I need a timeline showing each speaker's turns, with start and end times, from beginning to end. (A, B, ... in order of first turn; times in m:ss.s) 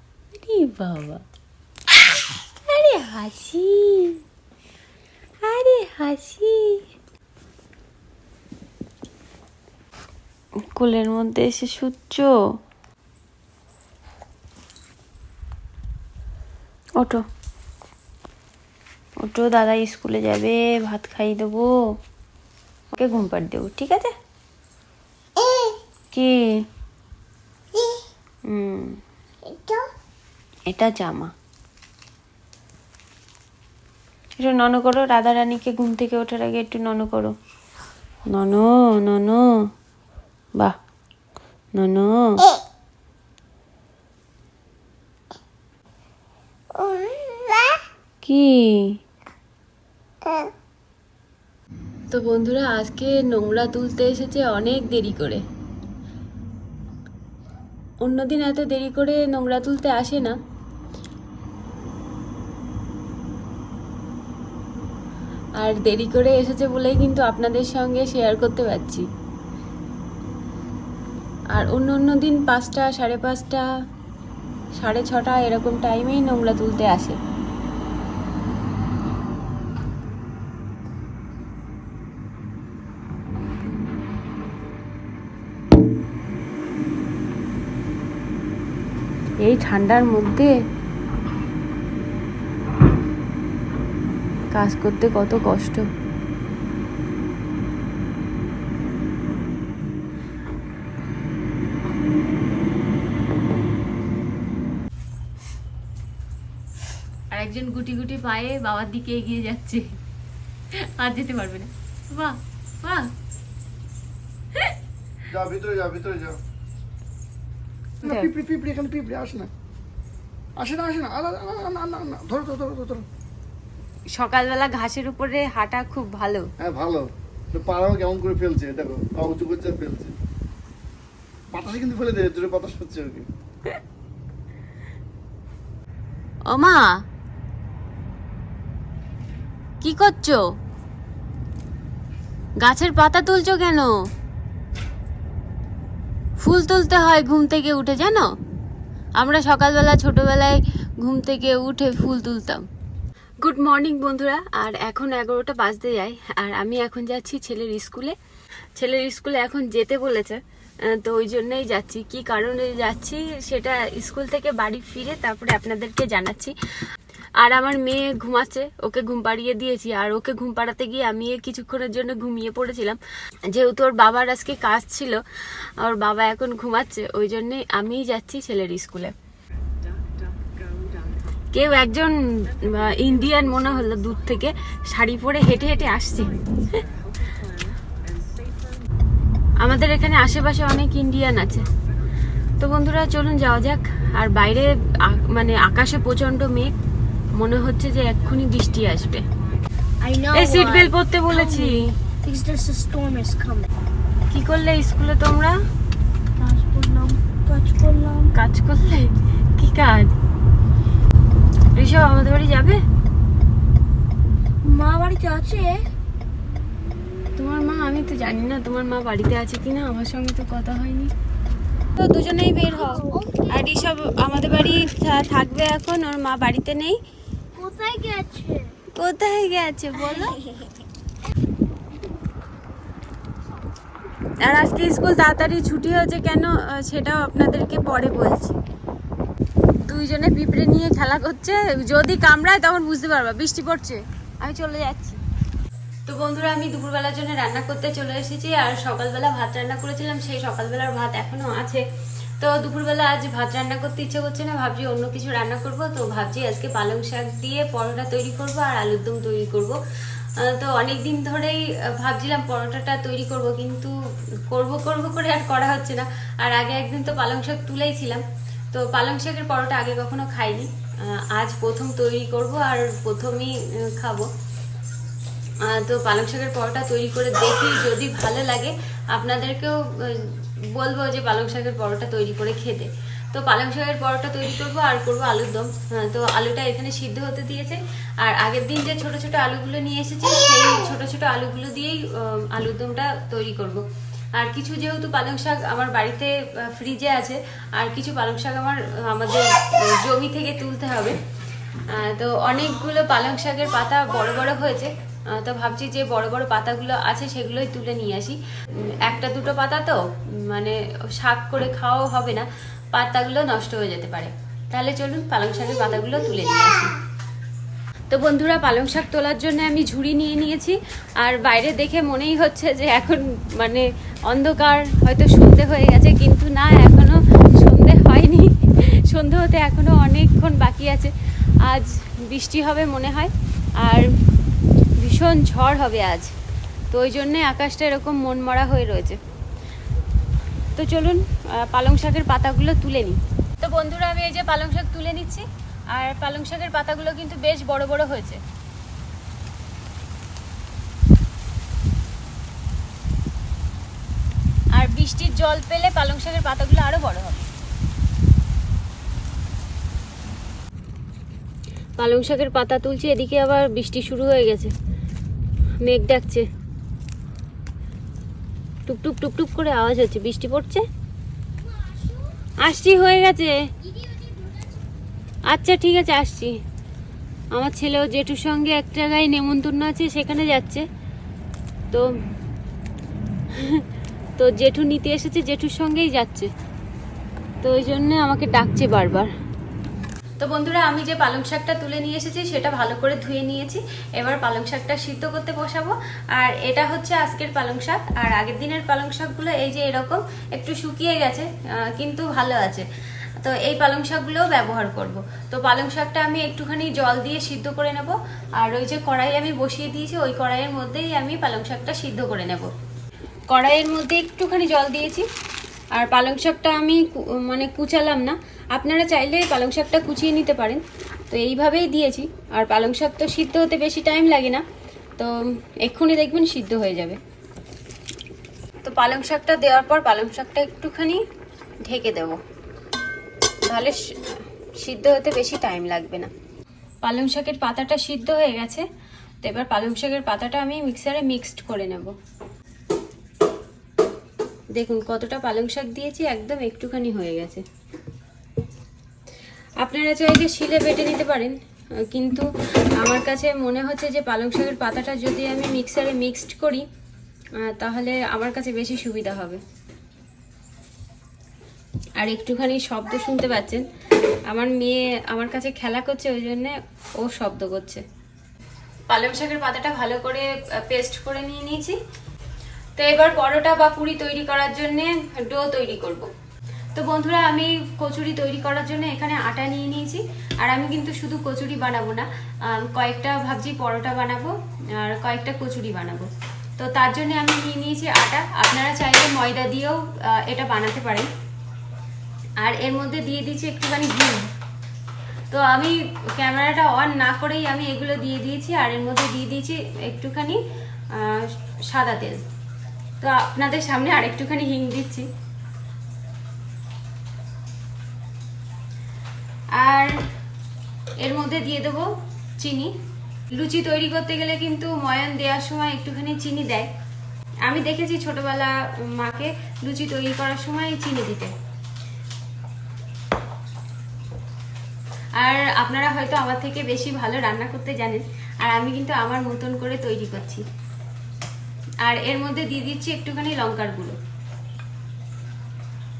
0:00.3-0:01.2 A
0:02.6-0:04.2 A
0:05.4-0:06.8 A
0:10.7-0:12.4 A
0:17.0-0:17.2 A
0:19.2-0:21.8 A
0:22.9-0:24.1 A
0:26.1-0:26.6 A
0:28.5-0:29.0 A
0:30.7-0:31.3 A
0:34.4-0:37.3 A
0:38.3-0:39.7 A
0:41.7-0:42.5 A
0:48.2-0:49.0 A
0:52.1-0:55.4 A
0:58.0-1:00.4 A
1:05.6-1:09.1 A
1:11.5-1:13.7 A
1:14.8-1:17.2 A
1:29.4-1:30.5 A
1:34.5-1:35.8 A
1:47.3-1:49.9 A
1:50.7-1:53.1 A
1:55.3-1:56.4 B
1:58.0-1:59.5 B
1:58.0-1:58.3 A
2:00.6-2:03.0 B
2:04.1-2:06.5 A
2:06.6-2:10.1 B
2:11.5-2:13.3 B
2:16.5-2:17.0 A
2:19.8-2:20.5 A
2:22.6-2:23.9 A
2:26.4-2:28.3 A
2:29.2-2:32.6 A
2:33.4-2:38.2 A
2:38.8-2:46.5 A
2:47.4-2:53.0 A
2:53.5-2:59.1 A
3:01.5-3:06.8 A
3:09.6-3:11.7 A
3:12.6-3:16.7 A
3:17.3-3:19.2 A
3:20.0-3:23.7 C
3:20.3-3:21.9 A
3:24.3-3:25.6 A
3:26.4-3:28.3 C
3:28.3-3:30.2 A
3:31.7-3:32.8 A
3:34.6-3:35.9 C
3:37.4-3:41.1 A
3:42.0-3:47.0 A
3:42.7-3:44.4 C
3:47.6-3:48.8 C
3:49.0-3:50.4 A
3:50.1-3:50.7 C
3:54.4-3:58.6 A
3:59.8-4:05.2 A
4:06.1-4:11.8 A
4:12.4-4:19.8 A
4:20.4-4:23.9 A
4:24.5-4:34.3 A
4:35.6-5:01.2 A
5:01.9-5:08.4 A
5:09.0-5:16.9 A
5:18.1-5:34.1 A
5:35.0-5:36.3 A
5:36.9-5:39.2 A
5:40.8-5:48.4 A
5:54.7-5:57.5 A
6:02.0-6:04.7 A
6:05.8-6:06.5 A
6:08.9-6:10.8 A
6:11.7-6:12.3 C
6:12.6-6:13.6 A
6:14.0-6:14.7 C
6:15.5-6:16.6 A
6:17.5-6:20.9 A
6:23.5-6:23.8 A
6:24.4-6:26.5 A
6:27.6-6:29.3 A
6:30.4-6:42.9 A
6:43.4-6:52.7 A
6:53.5-6:55.3 A
6:55.9-7:04.6 A
7:05.2-7:07.2 A
7:08.8-7:11.2 A
7:11.8-7:12.4 A
7:13.6-7:16.3 A
7:17.0-7:18.9 A
7:19.4-7:22.2 A
7:24.7-7:27.6 A
7:29.8-7:36.9 A
7:37.6-7:39.6 A
7:42.2-7:43.9 A
7:44.5-7:48.0 A
7:49.1-7:52.0 A
7:53.0-7:56.3 A
7:56.9-8:11.3 A
8:12.6-8:14.5 A
8:15.5-8:20.6 A
8:21.1-8:22.4 A
8:23.2-8:25.3 A
8:29.7-8:30.3 A
8:31.2-8:32.9 A
8:33.5-8:36.9 A
8:37.6-8:41.5 A
8:45.4-8:50.6 A
8:52.0-8:54.2 A